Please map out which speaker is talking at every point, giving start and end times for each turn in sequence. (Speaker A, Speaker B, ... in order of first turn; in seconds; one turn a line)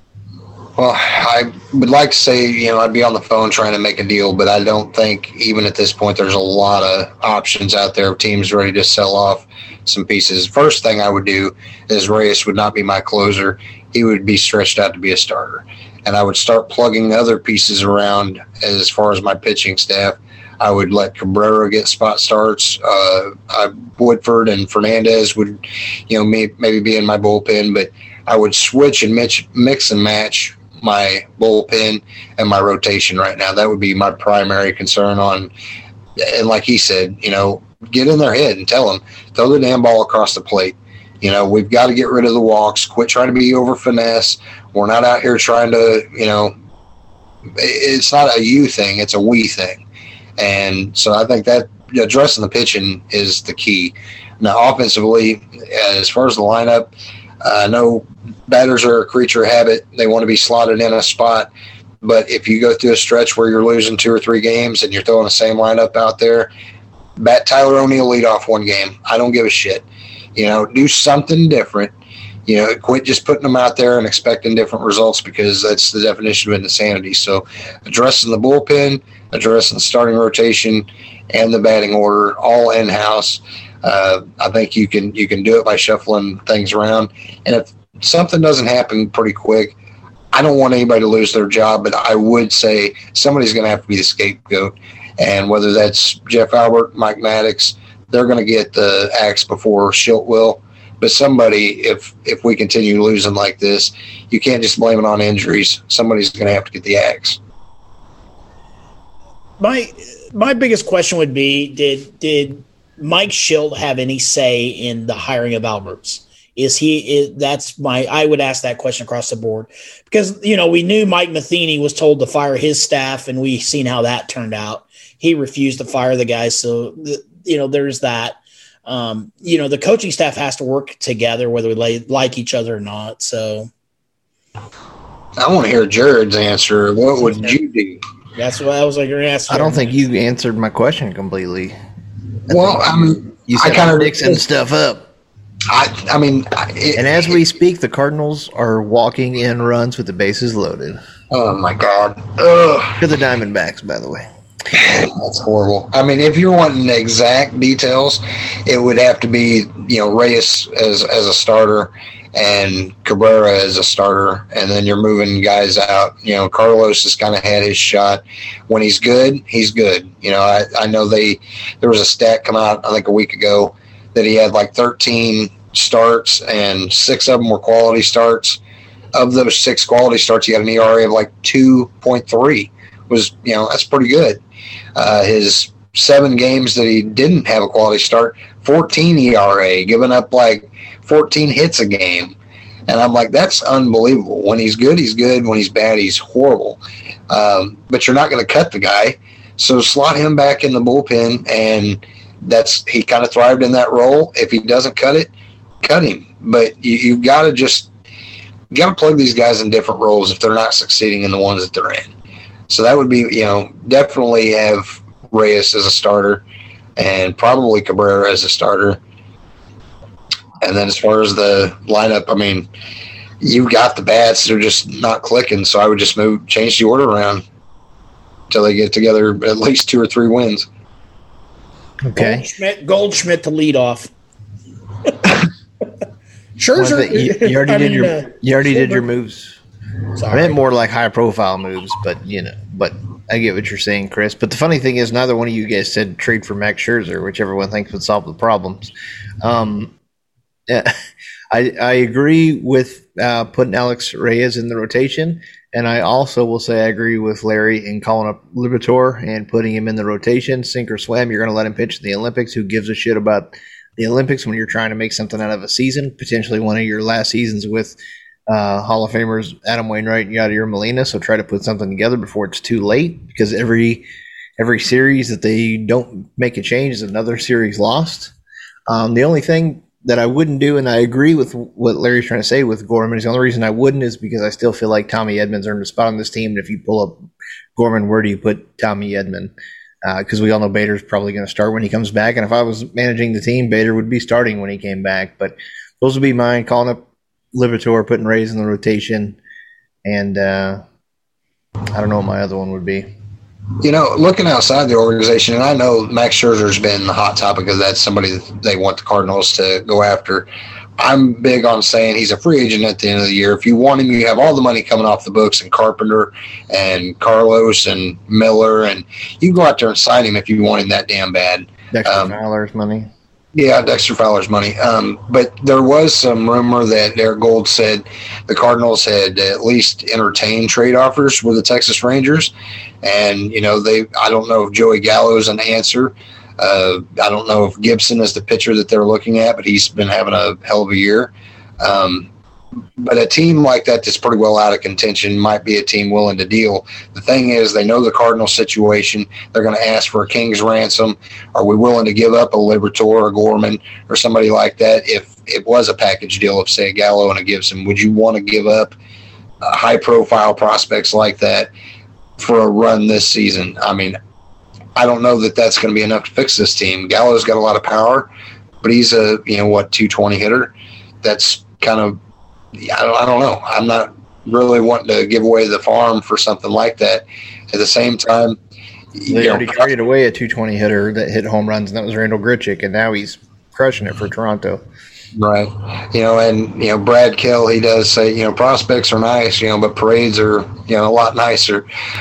Speaker A: 0.8-35.5
Speaker A: 36.2-46.5
Speaker A: 47.5-49.8
Speaker A: 50.4-61.5
Speaker A: 62.0-66.5
Speaker A: 67.2-69.8
Speaker A: 70.3-71.9
Speaker A: 72.5-89.7
Speaker A: 90.3-107.4
Speaker B: 109.6-133.7
Speaker A: 135.4-138.0
Speaker B: 137.3-137.6
Speaker B: 138.3-139.9
Speaker C: 139.5-141.7
Speaker C: 142.5-145.1
Speaker A: 142.5-144.4
Speaker A: 145.7-147.3
Speaker C: 146.9-151.0
Speaker A: 151.3-153.0
Speaker C: 153.0-154.3
Speaker A: 154.7-178.6
Speaker A: 179.1-184.4
Speaker A: 184.9-192.3
Speaker A: 192.9-205.3
Speaker A: 205.8-207.9
Speaker A: 208.7-212.1
Speaker A: 212.7-216.4
Speaker A: 217.0-219.0
Speaker A: 220.6-222.7
Speaker A: 223.4-227.4
Speaker A: 228.5-230.7
Speaker C: 232.0-232.5
Speaker B: 232.2-234.1
Speaker B: 236.6-239.0
Speaker C: 236.8-239.6
Speaker B: 240.2-240.6
Speaker C: 240.3-248.9
Speaker C: 249.4-249.9
Speaker C: 250.7-250.9
Speaker C: 251.5-268.0
Speaker C: 268.5-274.0
Speaker C: 274.6-278.3
Speaker C: 278.9-287.2
Speaker C: 287.8-289.5
Speaker C: 290.0-299.4
Speaker C: 300.0-300.8
Speaker C: 301.9-303.1
Speaker A: 303.8-322.3
Speaker C: 321.9-323.1
Speaker A: 323.5-342.3
Speaker A: 343.0-358.9
Speaker A: 359.6-361.7
Speaker A: 362.4-364.2
Speaker A: 364.9-368.3
Speaker A: 368.8-372.2
Speaker A: 372.8-378.6
Speaker A: 379.1-379.9
Speaker C: 379.3-384.8
Speaker A: 385.4-391.8